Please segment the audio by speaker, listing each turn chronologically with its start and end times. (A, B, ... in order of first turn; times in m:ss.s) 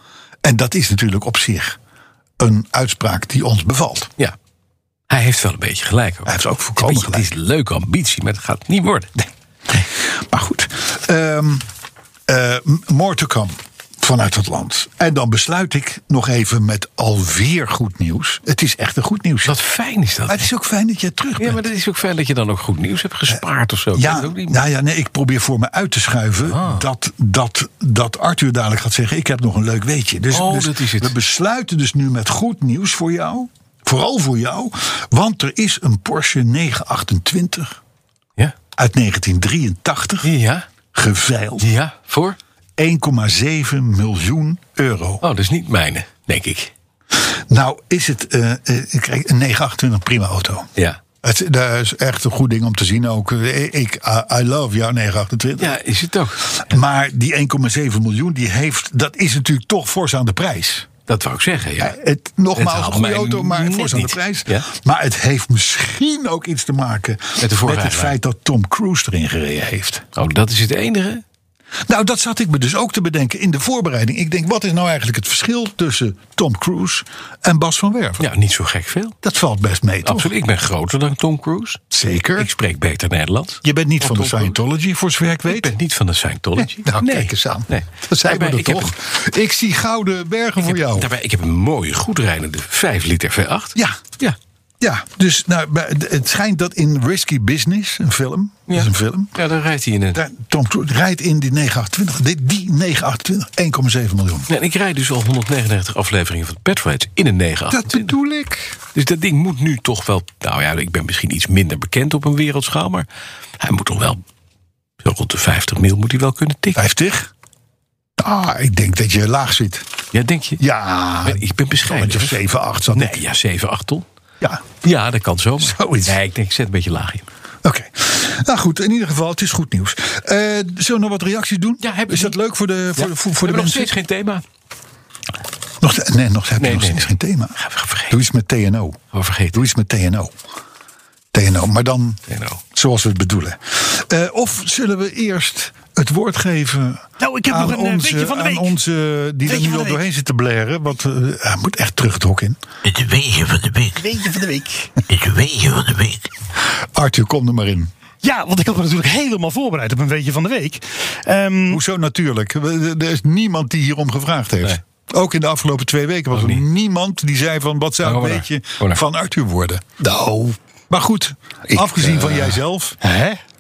0:00.4-0:01.8 A
0:02.4-0:04.1 A
0:05.1-0:09.2 B
0:06.3-0:07.3 A
0:09.7-0:11.7 A
0:12.3-0:19.6 A
0:19.4-0:20.5 B
0:20.3-0:21.7 A
0:21.4-0:24.6 B
0:23.9-0:37.8 A
0:26.5-0:26.8 B
0:30.3-0:31.1 B
0:38.8-0:40.3 A
0:40.2-0:40.7 B
0:40.9-0:41.7 A
0:41.6-0:42.4 B
0:42.8-0:45.2 A
0:45.2-0:46.7 B
0:47.1-0:50.7 A
0:51.2-0:55.8 A
0:55.6-0:56.7 B
0:56.5-1:00.9 A
1:01.1-1:02.0 B
1:01.8-1:10.0 A
1:02.5-1:04.7 B
1:07.4-1:08.2 B
1:10.2-1:11.2 B
1:11.9-1:18.2 A
1:18.2-1:19.2 B
1:19.2-1:20.3 A
1:20.0-1:21.8 B
1:21.9-1:22.5 A
1:22.4-1:24.6 B
1:23.6-1:25.7 A
1:25.5-1:28.9 B
1:26.6-1:31.1 A
1:30.6-1:34.4 B
1:34.8-1:39.4 A
1:38.7-1:40.2 B
1:40.1-1:44.5 A
1:44.5-1:48.1 B
1:47.7-1:48.8 A
1:48.9-1:53.1 B
1:53.6-1:54.2 B
1:55.0-1:56.8 B
1:56.8-1:57.3 A
1:58.2-1:59.9 A
2:00.1-2:00.6 B
2:00.6-2:03.2 A
2:01.2-2:02.4 B
2:02.9-2:04.1 B
2:04.8-2:07.3 B
2:05.6-2:06.2 A
2:07.6-2:13.9 A
2:11.8-2:12.4 B
2:13.0-2:14.4 B
2:15.8-2:19.0 A
2:16.6-2:18.2 B
2:19.1-2:19.6 B
2:19.5-2:20.3 A
2:21.3-2:22.2 A
2:22.3-2:22.6 B
2:22.7-2:32.6 A
2:27.2-2:28.7 C
2:29.4-2:30.0 C
2:32.8-2:34.0 D
2:34.0-2:34.9 C
2:35.1-2:36.3 D
2:36.9-2:37.9 A
2:38.2-2:41.8 C
2:41.7-2:50.1 A
2:46.3-2:46.6 B
2:48.0-2:49.0 B
2:50.1-2:50.5 C
2:50.9-2:53.0 A
2:52.0-2:52.6 B
2:53.0-2:53.4 C